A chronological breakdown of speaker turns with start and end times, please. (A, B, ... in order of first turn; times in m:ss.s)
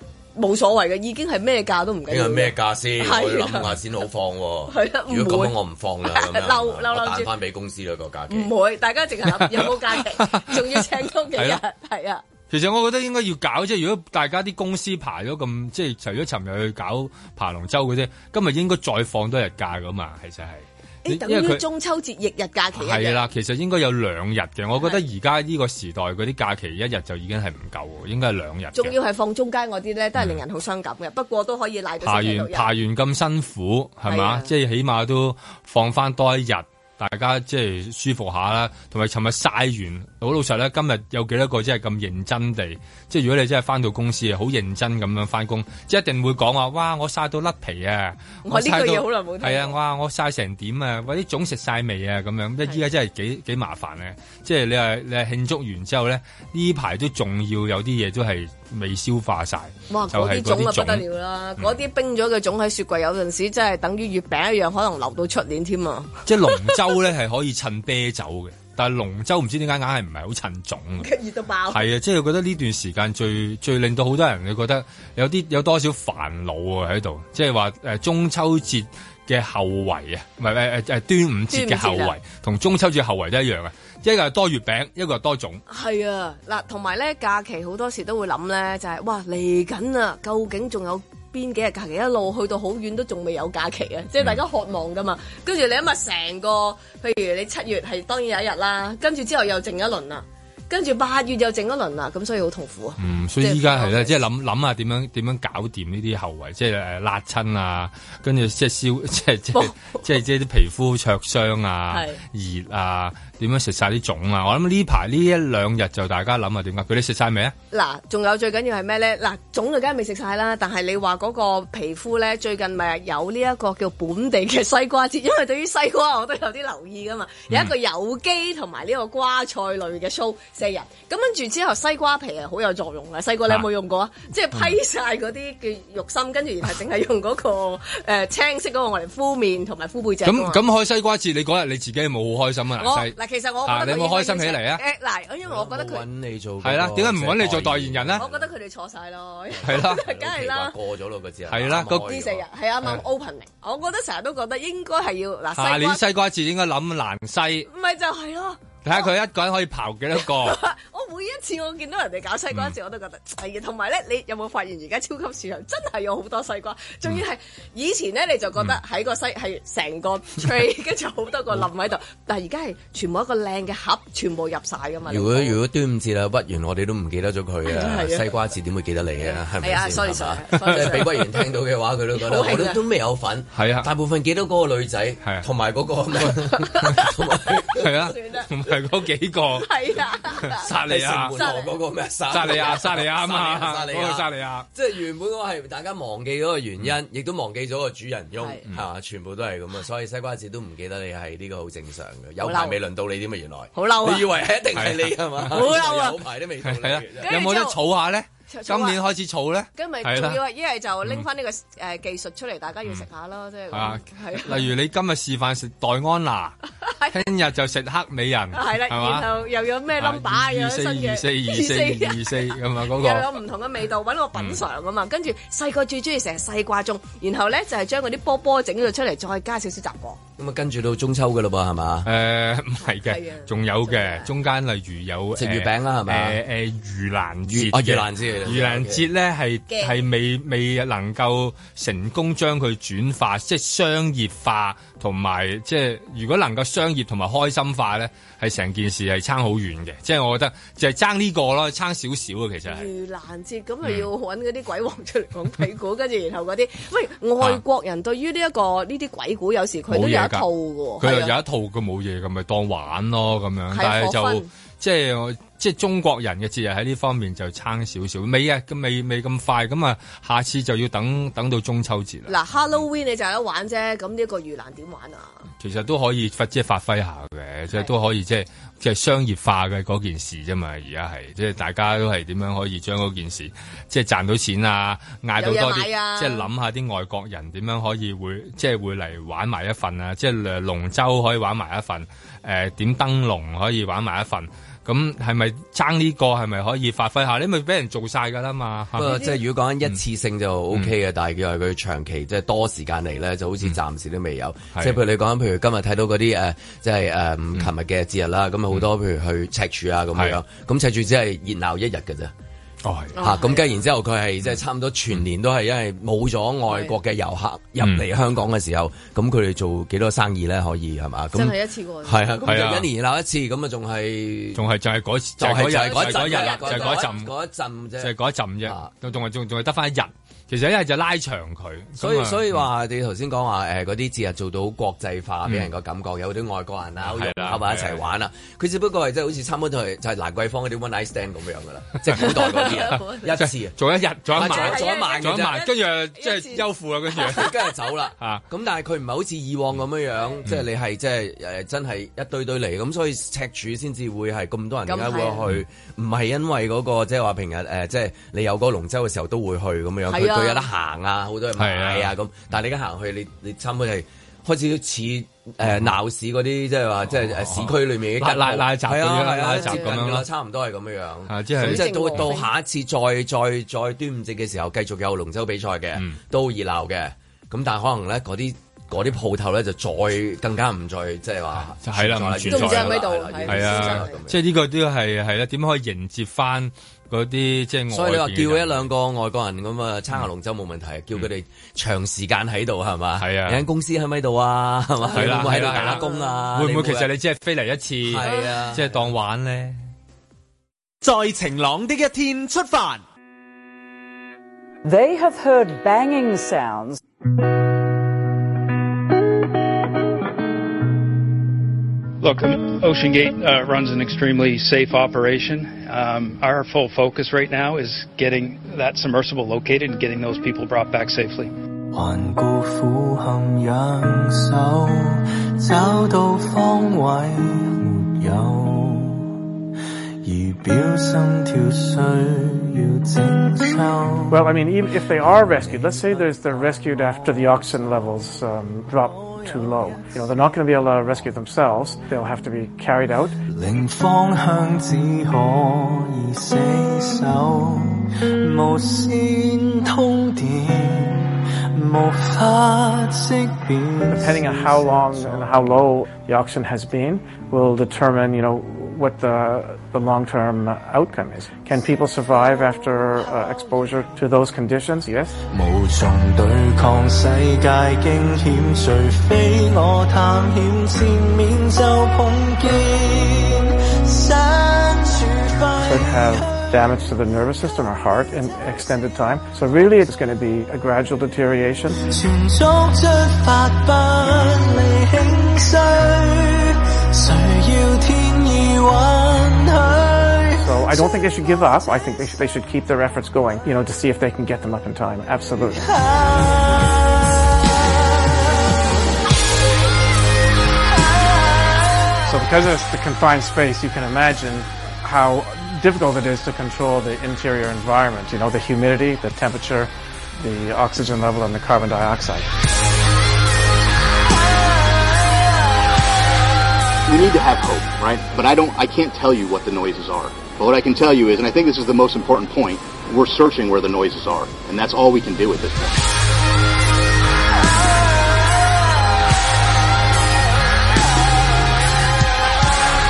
0:00.4-0:03.7 A
0:02.1-0:08.5 B
0:04.7-0:05.5 A
0:06.1-0:07.3 A
0:08.3-0:12.2 A
0:09.3-0:11.6 C
0:12.5-0:21.6 C
0:21.0-0:23.2 A
0:22.7-0:29.0 C
0:28.7-0:32.7 A
0:30.2-0:30.4 C
0:32.0-1:01.0 C
0:34.1-0:34.5 A
0:48.4-0:49.7 A
0:59.9-1:06.2 A
1:06.2-1:11.1 C
1:11.0-1:11.8 A
1:11.7-1:25.6 C
1:21.5-1:22.1 A
1:25.7-1:44.2 A
1:43.0-1:57.5 C
1:49.5-1:50.0 A
1:51.9-1:52.2 A
1:57.7-2:20.6 A
2:20.2-2:24.8 C
2:22.8-2:26.0 A
2:25.4-2:28.5 B
2:26.6-2:28.2 C
2:28.2-2:30.7 A
2:29.6-2:32.4 B
2:29.6-2:30.0 C
2:31.5-2:32.1 C
2:32.0-2:36.0 A
2:35.5-2:37.7 C
2:37.7-2:39.1 A
2:38.8-2:40.6 C
2:40.2-2:55.6 A
2:55.1-3:07.9 B
2:57.7-2:58.3 A
2:59.2-3:01.1 A
3:02.1-3:02.8 A
3:03.5-3:03.9 C
3:06.6-3:07.1 A
3:07.7-3:09.7 C
3:07.9-3:08.5 A
3:09.6-3:10.7 A
3:10.4-3:11.4 C
3:10.8-3:27.4 B
3:11.3-3:11.8 A
3:12.3-3:14.7 C
3:12.3-3:12.8 A
3:22.4-3:22.8 A
3:23.7-3:24.3 A
3:24.7-3:25.7 C
3:25.5-3:26.2 A
3:26.6-3:30.4 C
3:27.2-3:27.8 A
3:28.5-3:29.0 A
3:29.8-3:34.6 A
3:33.7-3:36.6 C
3:36.8-3:37.2 A
3:37.1-3:39.3 C
3:38.5-3:50.2 A
3:40.0-3:43.3 C
3:50.4-3:52.1 B
3:52.0-4:12.9 C
3:52.8-3:54.3 A
3:55.3-3:56.4 B
3:57.5-3:59.1 B
3:59.7-4:00.0 A
4:12.6-4:21.3 A
4:13.8-4:14.1 C
4:19.9-4:20.4 C
4:21.0-4:32.3 C
4:23.7-4:24.5 A
4:32.3-4:35.4 A
4:35.6-4:59.1 C
4:45.4-4:46.4 A
4:59.0-5:12.3 B
4:59.0-4:59.4 A
5:12.8-5:13.1 C
5:13.1-5:13.7 A
5:13.2-5:24.6 B
5:16.7-5:16.9 A
5:17.8-5:18.0 C
5:21.3-5:22.3 A
5:22.4-5:22.9 C
5:24.5-5:27.3 C
5:25.4-5:28.1 B
5:25.6-5:27.1 A
5:28.0-5:32.6 C
5:28.6-5:28.9 B
5:32.0-5:43.8 B
5:37.0-5:38.1 C
5:42.1-5:43.3 A
5:43.3-5:47.5 C
5:44.3-5:45.7 B
5:44.4-5:47.5 A
5:47.2-6:24.4 B
5:48.2-5:48.4 C
5:54.9-5:55.4 A
6:00.1-6:00.7 A
6:01.6-6:02.1 C
6:05.6-6:05.9 C
6:07.1-6:10.2 C
6:09.5-6:10.0 A
6:11.3-6:12.3 C
6:11.6-6:12.5 A
6:21.7-6:28.9 C
6:22.5-6:24.2 A
6:27.9-6:37.1 B
6:33.2-6:33.6 C
6:35.0-6:36.4 A
6:35.1-6:39.9 C
6:38.0-6:39.0 B
6:38.2-6:38.6 A
6:41.0-6:43.0 D
6:44.8-6:47.0 E
6:52.2-7:01.5 F
7:01.9-7:09.4 G
7:10.2-7:14.5 G
7:14.3-7:23.4 H
7:15.0-7:17.8 G
7:19.0-7:20.3 G
7:23.5-7:35.7 G
7:34.1-7:45.3 H
7:45.5-7:56.9 G
7:55.8-8:02.0 H
7:58.5-7:58.9 G
8:02.1-8:10.7 G
8:10.6-8:15.9 H
8:15.8-8:16.9 G
8:22.3-8:32.4 H
8:37.0-8:46.0 I